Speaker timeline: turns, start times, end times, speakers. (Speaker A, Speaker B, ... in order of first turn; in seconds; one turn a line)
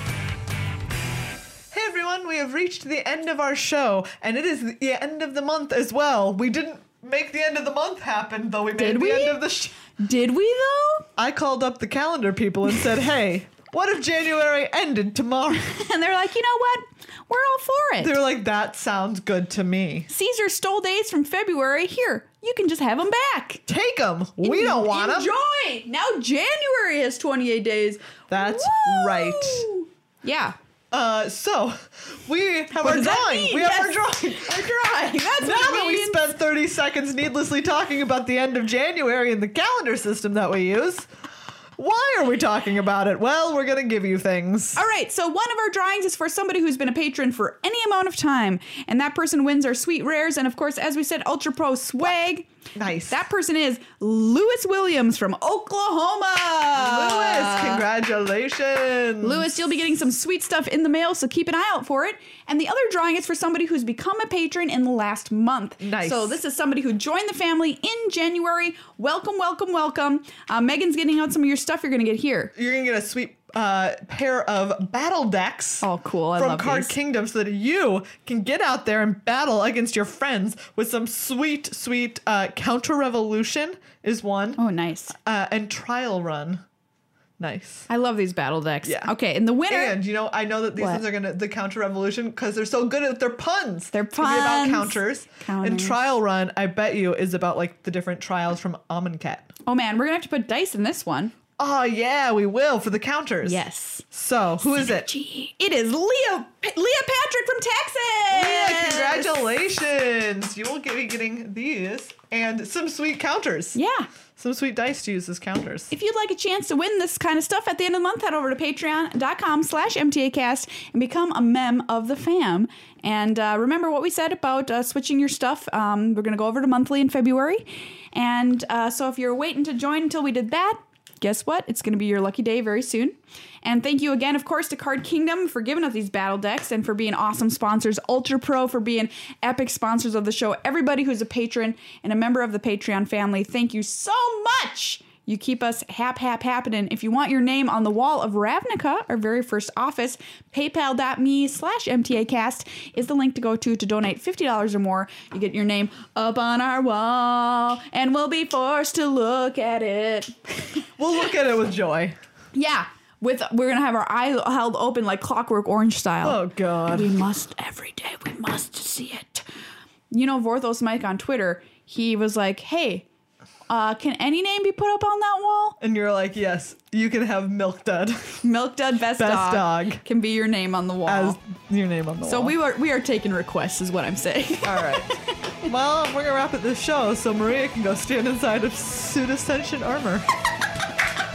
Speaker A: 1.7-9.8
Speaker B: 8.8-11.1
Speaker A: 11.2-15.7
Speaker B: 15.5-18.2
Speaker A: 18.0-20.1
Speaker B: 20.1-23.6
Speaker A: 23.7-25.3
Speaker B: 24.4-30.6
Speaker A: 28.3-29.7
Speaker A: 30.9-34.7
Speaker B: 32.7-36.2
Speaker A: 35.4-41.1
Speaker A: 41.8-44.9
Speaker B: 44.8-52.5
Speaker A: 52.8-53.2
Speaker B: 53.1-57.8
Speaker A: 56.8-59.5
Speaker B: 59.2-72.5
Speaker A: 65.8-66.4
Speaker A: 72.5-84.6
Speaker B: 75.8-76.9
Speaker B: 84.6-85.1
Speaker A: 85.2-86.6
Speaker A: 87.4-87.9
Speaker B: 87.9-90.0
Speaker A: 88.8-89.1
Speaker A: 89.7-99.5
Speaker B: 90.8-91.0
Speaker B: 93.9-96.0
Speaker B: 99.7-101.3
Speaker A: 101.6-105.1
Speaker B: 103.4-104.0
Speaker B: 104.7-109.6
Speaker A: 108.3-113.8
Speaker B: 113.8-114.1
Speaker A: 114.4-115.9
Speaker B: 115.9-160.9
Speaker A: 161.0-162.2
Speaker B: 162.6-166.4
Speaker A: 166.2-167.2
Speaker B: 166.9-169.5
Speaker B: 170.1-173.1
Speaker B: 173.7-175.8
Speaker A: 175.8-178.4
Speaker B: 178.4-181.4
Speaker A: 179.2-180.0
Speaker A: 181.1-182.6
Speaker B: 182.2-185.6
Speaker A: 184.6-185.1
Speaker A: 185.6-190.3